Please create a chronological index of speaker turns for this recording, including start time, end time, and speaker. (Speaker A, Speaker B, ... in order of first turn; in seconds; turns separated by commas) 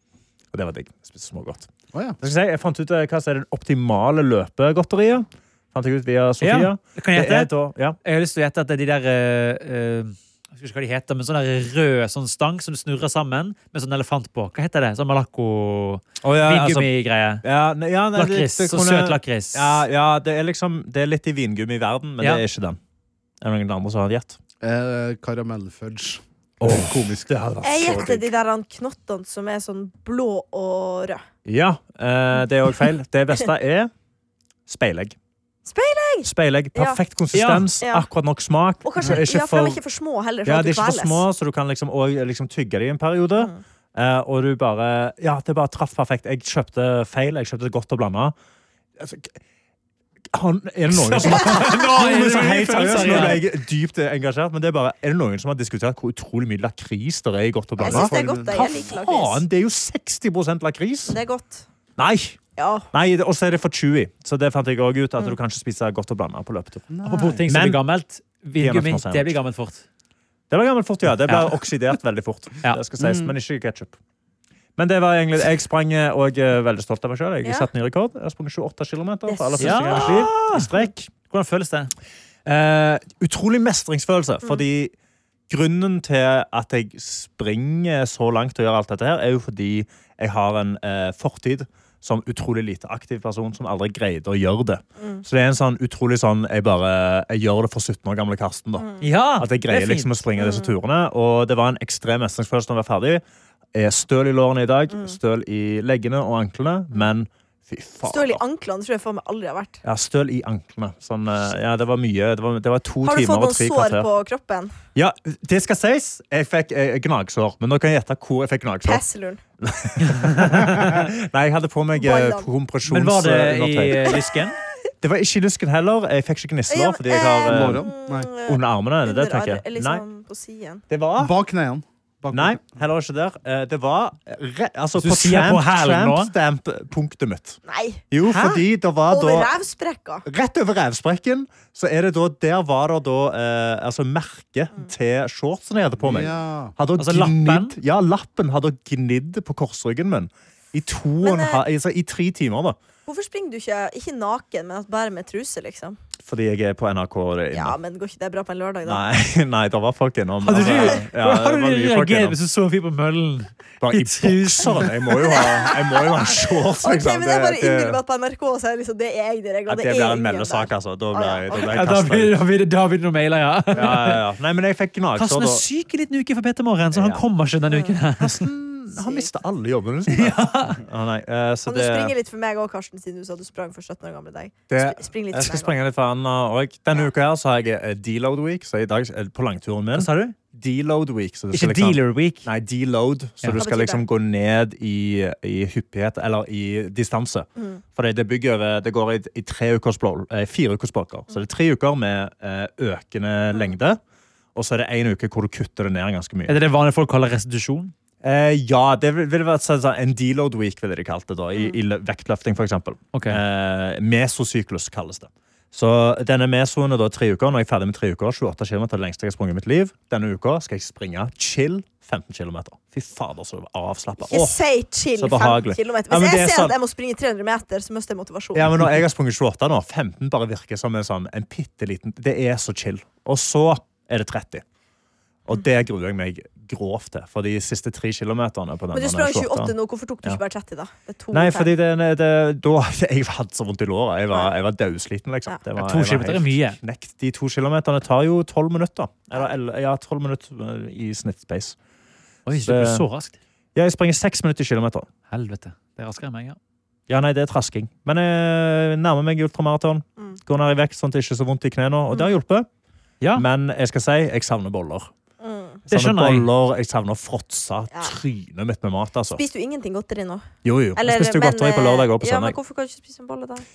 Speaker A: 0.5-1.7, Speaker B: 1.9-2.2, Speaker A: 2.2-8.0, Speaker C: 6.4-7.5, Speaker C: 8.0-17.4, Speaker A: 16.2-16.9, Speaker A: 17.4-22.8, Speaker C: 18.1-19.8, Speaker A: 23.4-24.4, Speaker B: 24.6-28.1, Speaker A: 26.6-28.3, Speaker D: 27.6-31.2, Speaker A: 31.5-33.9, Speaker A: 34.7-35.1, Speaker D: 35.6-37.0, Speaker A: 36.2-39.8, Speaker C: 37.3-37.7, Speaker D: 37.8-38.1, Speaker D: 38.8-41.2, Speaker A: 40.5-48.4, Speaker A: 49.0-49.4, Speaker A: 50.3-61.2, Speaker C: 50.9-53.5, Speaker B: 57.8-58.6, Speaker D: 57.8-59.4, Speaker D: 61.1-61.6, Speaker A: 62.0-62.4, Speaker D: 62.6-62.9, Speaker A: 62.9-67.8, Speaker B: 66.9-67.5, Speaker C: 67.0-69.8, Speaker A: 68.6-69.4, Speaker A: 70.5-73.9, Speaker C: 71.3-71.6, Speaker B: 73.0-73.3, Speaker A: 74.8-81.1, Speaker D: 79.3-80.2, Speaker C: 79.6-81.9, Speaker A: 82.5-84.9, Speaker A: 85.5-103.2, Speaker D: 95.0-95.2, Speaker D: 98.8-99.0, Speaker C: 99.0-100.2, Speaker D: 100.4-100.7, Speaker A: 103.8-108.4, Speaker D: 108.0-109.8, Speaker A: 109.8-114.1, Speaker D: 113.0-114.7, Speaker A: 115.0-119.0, Speaker D: 118.8-119.4, Speaker A: 119.6-124.2, Speaker C: 120.1-121.0, Speaker D: 122.0-122.5, Speaker C: 122.8-124.6, Speaker A: 125.0-127.9, Speaker D: 126.7-130.8, Speaker B: 127.5-128.3, Speaker A: 128.5-130.0, Speaker A: 130.9-131.3, Speaker B: 131.2-132.6, Speaker A: 132.3-137.6, Speaker C: 135.0-136.3, Speaker D: 137.7-138.0, Speaker A: 138.1-139.5, Speaker C: 138.2-138.6, Speaker D: 139.1-140.2, Speaker A: 140.2-152.8, Speaker B: 146.0-146.7, Speaker C: 147.0-147.8, Speaker D: 151.2-151.6, Speaker D: 153.1-156.0, Speaker A: 156.2-157.8, Speaker D: 157.5-159.0, Speaker A: 158.9-162.4, Speaker C: 160.4-164.9, Speaker A: 163.8-168.0, Speaker D: 165.3-171.8, Speaker A: 169.7-172.4, Speaker C: 171.6-174.2, Speaker A: 173.7-175.6, Speaker C: 175.2-178.5, Speaker A: 176.9-177.2, Speaker D: 177.7-178.0, Speaker A: 178.2-182.1, Speaker D: 178.9-179.3, Speaker C: 180.1-180.8, Speaker D: 181.7-185.8, Speaker A: 184.7-204.0, Speaker C: 189.9-190.3, Speaker C: 191.5-192.5, Speaker D: 193.6-194.0, Speaker A: 204.6-206.6, Speaker C: 206.5-207.9, Speaker A: 208.2-224.6, Speaker C: 213.1-213.4, Speaker D: 224.2-228.9, Speaker A: 225.1-226.8, Speaker A: 228.5-234.6, Speaker A: 235.5-240.4, Speaker D: 238.9-241.7, Speaker A: 241.3-251.8, Speaker C: 245.8-246.8, Speaker C: 252.5-253.4, Speaker A: 252.5-253.1, Speaker A: 253.8-255.1, Speaker C: 255.3-256.6, Speaker A: 257.1-262.7, Speaker D: 262.1-262.4, Speaker A: 263.4-265.1, Speaker D: 265.4-265.8, Speaker C: 265.9-266.5, Speaker A: 265.9-269.4, Speaker D: 267.9-268.2, Speaker D: 269.3-273.6, Speaker A: 270.6-272.6